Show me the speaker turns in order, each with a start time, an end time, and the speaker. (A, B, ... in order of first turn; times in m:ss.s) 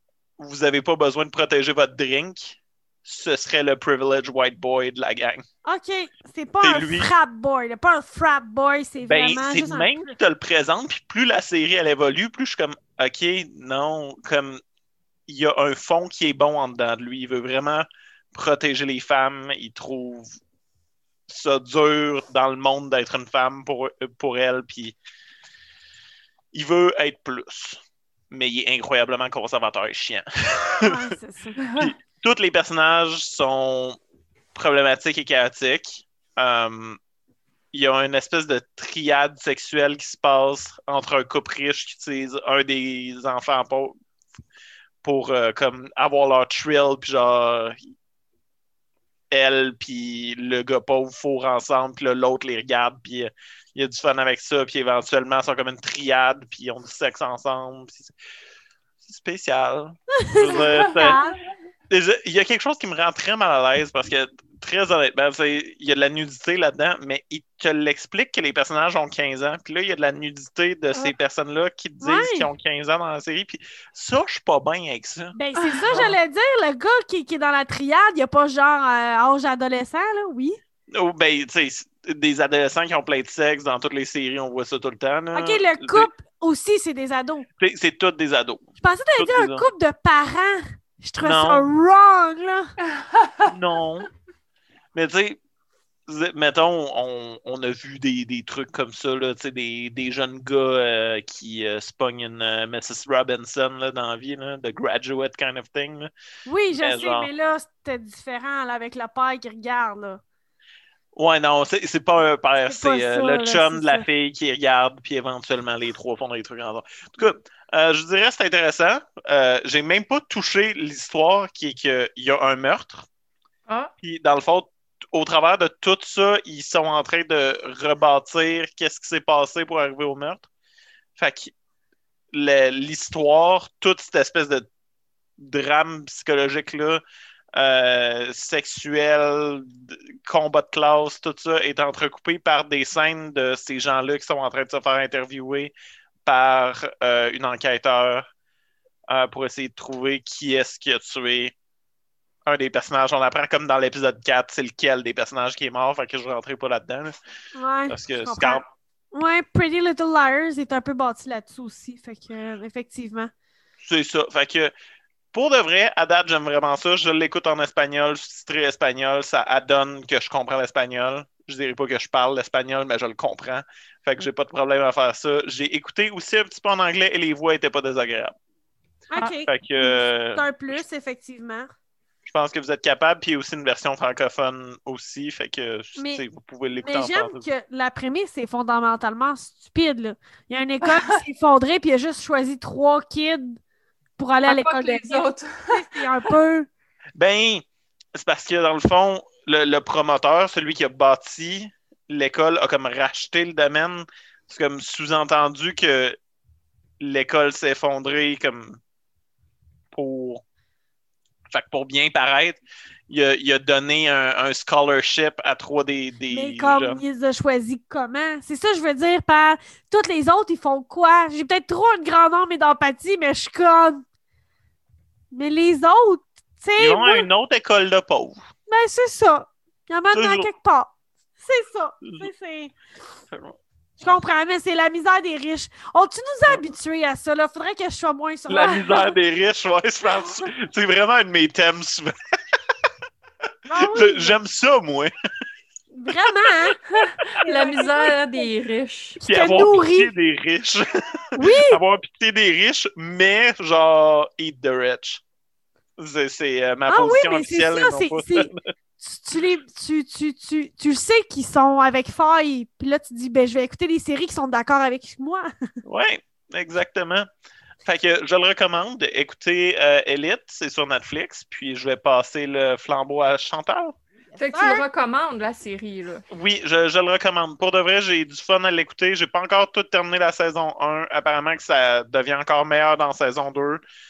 0:00.4-0:05.4 A
0:05.6-0:10.0 B
0:06.6-0:07.1 A
0:09.0-0:14.6 A
0:15.3-0:20.3 A
0:21.3-0:25.0 A
0:26.5-0:30.9 A
0:30.7-0:31.6 B
0:31.6-0:31.9 C
0:31.8-0:34.0 A
0:34.6-0:37.0 A
0:37.7-0:44.0 A
0:45.0-0:47.8 A
0:49.3-0:58.1 A
0:59.0-1:01.2 A
1:00.3-1:01.4 B
1:00.5-1:01.3 C
1:01.9-1:15.4 A
1:12.0-1:12.5 B
1:15.3-1:20.6 B
1:15.6-1:16.0 C
1:15.9-1:16.2 A
1:20.9-1:26.1 A
1:25.3-1:27.5 B
1:27.6-1:29.6 A
1:28.8-1:32.8 B
1:31.2-1:31.7 A
1:33.0-1:33.5 C
1:33.5-1:34.1 A
1:35.0-1:35.4 A
1:36.1-1:46.1 A
1:46.5-1:50.2 B
1:46.7-1:47.3 A
1:51.2-2:03.1 A
1:52.6-1:54.0 B
2:04.0-2:10.5 A
2:11.2-2:11.5 A
2:12.3-2:14.7 A
2:15.4-2:17.0 A
2:17.6-2:25.7 A
2:26.2-2:28.3 A
2:29.1-2:31.5 A
2:32.5-2:37.2 A
2:37.6-2:38.6 B
2:37.9-2:38.7 A
2:39.1-2:43.3 B
2:43.8-2:44.7 A
2:45.3-2:58.4 A
2:59.1-3:01.7 B
2:59.5-3:00.4 A
3:02.3-3:07.4 A
3:06.0-3:06.2 B
3:06.8-3:13.6 B
3:10.9-3:11.2 C
3:14.2-3:16.7 B
3:14.5-3:16.0 C
3:17.2-3:17.6 A
3:18.2-3:26.2 A
3:27.0-3:28.8 A
3:29.9-3:30.4 A
3:31.5-3:37.0 A
3:36.3-3:44.0 B
3:45.3-3:47.3 B
3:46.8-3:48.4 A
3:48.7-3:52.8 B
3:50.1-3:50.5 A
3:53.3-3:53.6 A
3:54.0-3:59.2 B
3:58.5-4:02.1 A
4:03.7-4:04.4 B
4:03.8-4:05.1 A
4:05.9-4:06.8 B
4:06.9-4:09.2 C
4:07.4-4:08.5 B
4:09.2-4:10.1 B
4:09.3-4:15.2 A
4:11.4-4:11.8 B
4:16.0-4:18.7 A
4:16.9-4:25.5 B
4:25.8-4:27.3 A
4:27.8-4:34.0 A
4:34.3-4:34.8 B
4:34.4-4:36.2 C
4:36.3-4:43.8 A